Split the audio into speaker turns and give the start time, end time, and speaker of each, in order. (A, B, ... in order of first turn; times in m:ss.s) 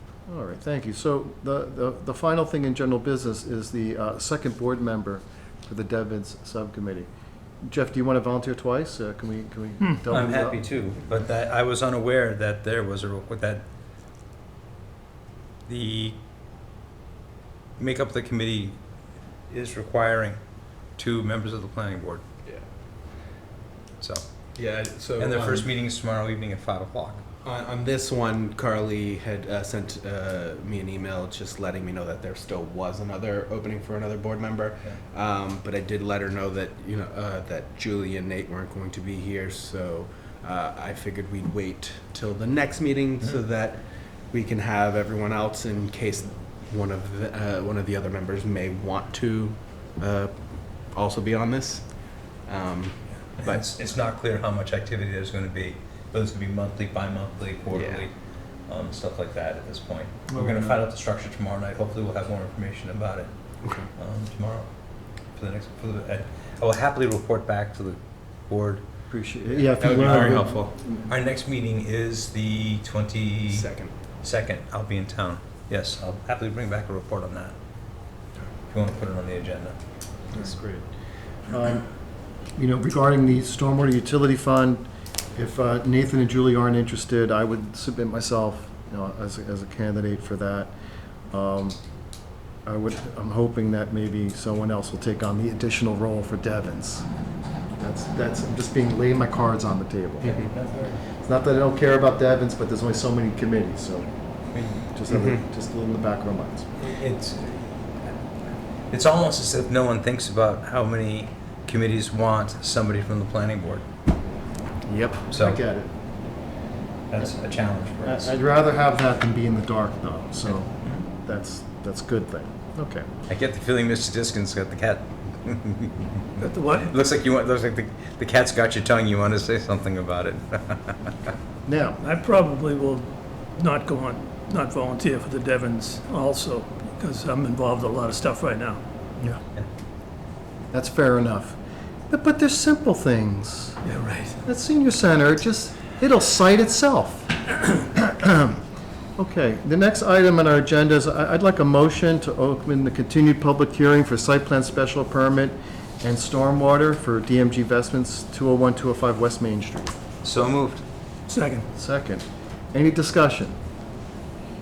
0:00.3-0:07.1 A
0:07.6-0:10.9 A
0:10.1-0:13.6 B
0:15.7-0:16.2 B
0:17.8-0:18.8 B
0:19.5-0:20.4 B
0:21.0-0:22.2 B
0:24.6-0:25.7 C
0:25.2-0:27.2 B
0:27.4-0:53.6 C
0:53.4-0:58.2 B
0:57.7-0:58.0 C
0:58.7-1:03.3 B
1:00.3-1:00.8 A
1:03.8-1:04.7 B
1:05.3-1:08.8 B
1:09.1-1:10.7 A
1:09.8-1:10.7 C
1:10.0-1:13.7 B
1:13.5-1:13.9 C
1:14.2-1:17.6 B
1:18.7-1:19.8 B
1:20.3-1:20.9 C
1:21.5-1:24.8 A
1:25.4-1:30.7 A
1:31.3-1:31.8 A
1:32.6-1:37.1 A
1:37.8-1:44.1 A
1:40.2-1:41.0 B
1:44.5-1:44.8 B
1:44.8-1:46.7 A
1:45.1-1:45.4 C
1:46.8-1:48.1 B
1:48.9-1:53.8 B
1:54.9-1:55.1 C
1:55.3-1:55.6 B
1:55.3-1:55.9 A
1:57.1-1:58.4 B
1:58.0-2:03.1 A
2:03.3-2:11.3 B
2:06.4-2:06.9 D
2:11.7-2:12.0 A
2:12.0-2:18.8 D
2:20.7-2:21.6 A
2:22.1-2:23.8 A
2:23.8-2:24.4 D
2:24.4-2:28.6 A
2:29.2-2:39.9 A
2:40.2-2:40.8 B
2:41.3-2:41.7 D
2:41.8-2:43.6 A